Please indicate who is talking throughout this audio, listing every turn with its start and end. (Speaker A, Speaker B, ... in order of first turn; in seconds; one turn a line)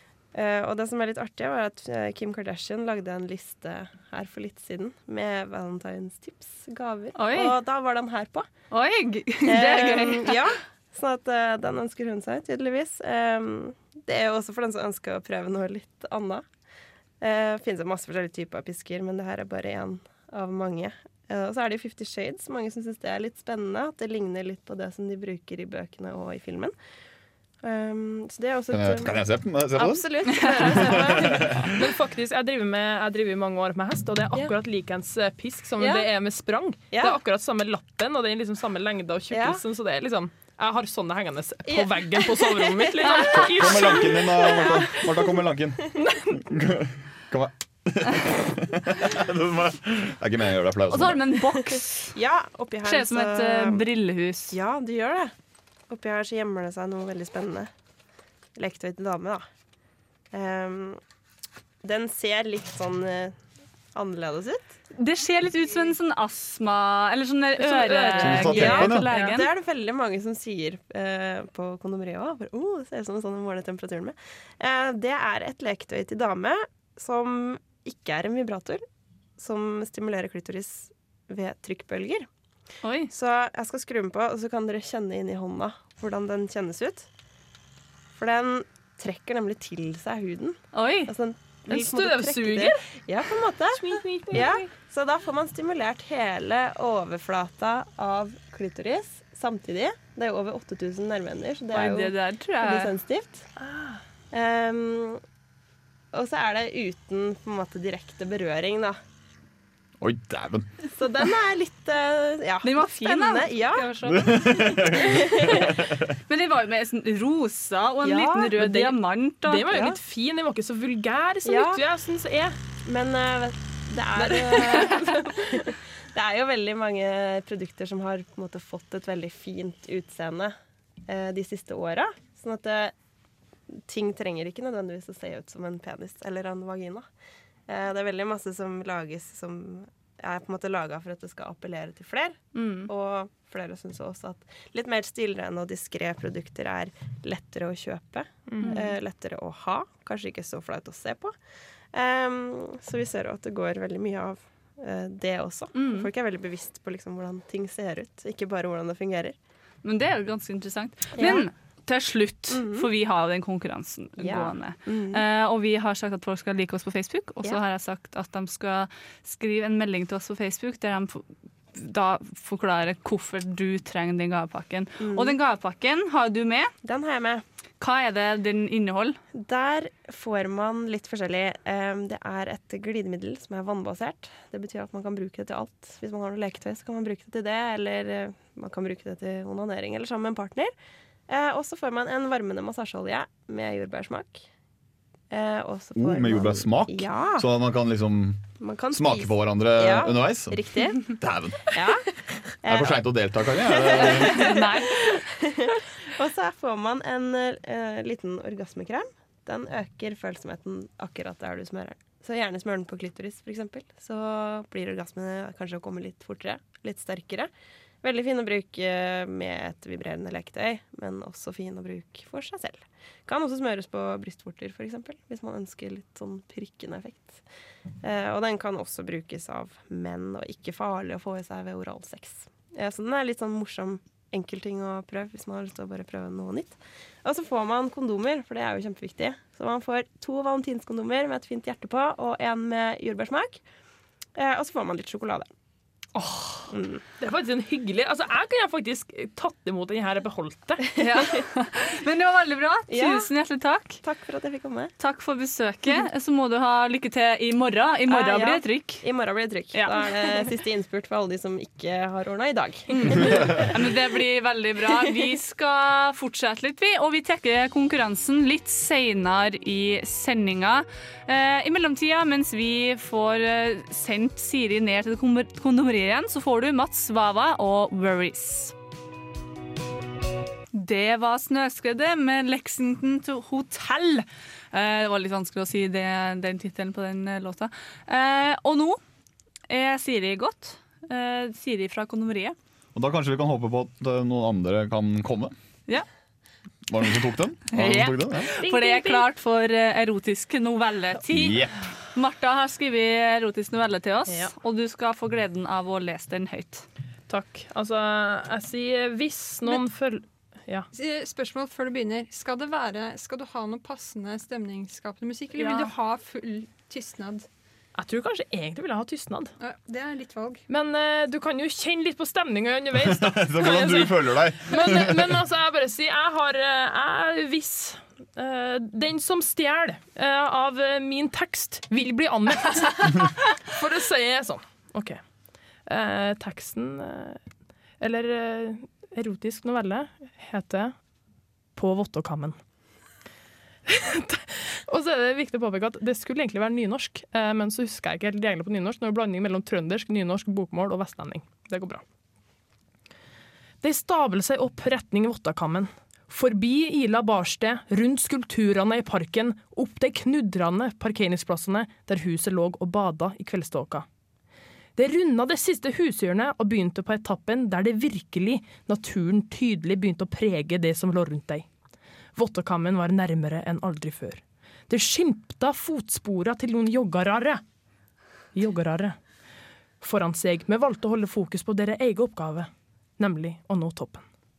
Speaker A: 0.3-8.5
Speaker B: 7.2-7.5
Speaker B: 8.7-10.4
Speaker A: 9.4-16.4
Speaker A: 17.2-26.7
Speaker A: 27.6-29.2
Speaker C: 28.7-30.0
Speaker A: 29.8-31.7
Speaker D: 29.8-45.1
Speaker C: 30.6-31.7
Speaker A: 35.8-36.1
Speaker A: 36.9-37.2
Speaker A: 39.3-39.6
Speaker A: 41.7-45.0
Speaker C: 43.3-46.0
Speaker D: 46.0-46.4
Speaker C: 46.5-51.2
Speaker B: 50.9-52.2
Speaker A: 52.2-53.9
Speaker B: 52.9-54.5
Speaker A: 54.5-55.3
Speaker A: 55.9-57.7
Speaker A: 58.6-59.4
Speaker A: 60.3-61.0
Speaker A: 61.8-63.4
Speaker A: 63.9-64.7
Speaker B: 65.0-69.5
Speaker D: 67.6-69.3
Speaker C: 68.2-69.1
Speaker A: 68.2-78.8
Speaker A: 79.4-82.3
Speaker B: 82.8-83.1
Speaker A: 83.1-87.1
Speaker A: 88.1-103.5
Speaker B: 90.7-91.1
Speaker D: 91.7-92.8
Speaker D: 93.7-94.7
Speaker B: 101.7-102.9
Speaker D: 103.6-104.0
Speaker A: 104.3-105.2
Speaker A: 106.1-109.0
Speaker C: 110.0-110.7
Speaker A: 110.9-113.9
Speaker B: 112.6-115.5
Speaker C: 114.1-115.8
Speaker A: 114.9-115.7
Speaker B: 116.3-120.0
Speaker A: 118.1-118.5
Speaker D: 118.5-122.6
Speaker A: 121.5-121.8
Speaker A: 122.8-130.6
Speaker D: 124.2-125.2
Speaker A: 131.1-132.9
Speaker A: 133.9-137.1
Speaker A: 137.7-151.3
Speaker B: 142.5-142.9
Speaker D: 148.5-148.8
Speaker B: 148.6-148.9
Speaker A: 151.9-159.4
Speaker B: 155.7-156.1
Speaker B: 159.8-176.7
Speaker A: 161.2-161.5
Speaker A: 162.5-162.9
Speaker A: 164.2-165.2
Speaker A: 175.0-175.4
Speaker A: 176.8-177.4
Speaker B: 177.8-179.2
Speaker A: 179.3-190.7
Speaker A: 191.3-194.4
Speaker A: 195.3-197.5
Speaker C: 196.0-201.7
Speaker A: 198.6-201.1
Speaker A: 201.7-202.0
Speaker A: 202.6-217.5
Speaker C: 202.7-204.5
Speaker B: 204.0-205.0
Speaker A: 218.0-227.4
Speaker A: 228.0-243.6
Speaker A: 244.4-245.5
Speaker B: 246.1-246.7
Speaker A: 246.7-247.0
Speaker D: 247.2-250.8
Speaker B: 251.0-254.0
Speaker A: 251.1-251.4
Speaker A: 252.9-253.3
Speaker A: 254.0-254.9
Speaker B: 255.0-259.0
Speaker A: 258.1-263.7
Speaker B: 259.7-260.0
Speaker B: 262.9-278.8
Speaker B: 280.7-289.0
Speaker B: 289.7-292.6
Speaker C: 292.9-295.5
Speaker C: 296.9-298.5
Speaker B: 297.7-306.9
Speaker D: 298.5-299.3
Speaker C: 301.3-301.7
Speaker D: 307.3-310.9
Speaker E: 310.9-317.5
Speaker B: 315.6-315.9
Speaker D: 318.0-319.5
Speaker E: 319.6-320.6
Speaker D: 320.7-335.2
Speaker C: 322.9-325.3
Speaker D: 335.9-337.4
Speaker D: 338.0-340.9
Speaker D: 341.8-342.6
Speaker D: 343.9-352.0
Speaker D: 353.8-364.1
Speaker D: 365.0-371.7
Speaker D: 372.4-377.6
Speaker D: 378.5-379.1
Speaker D: 380.0-384.2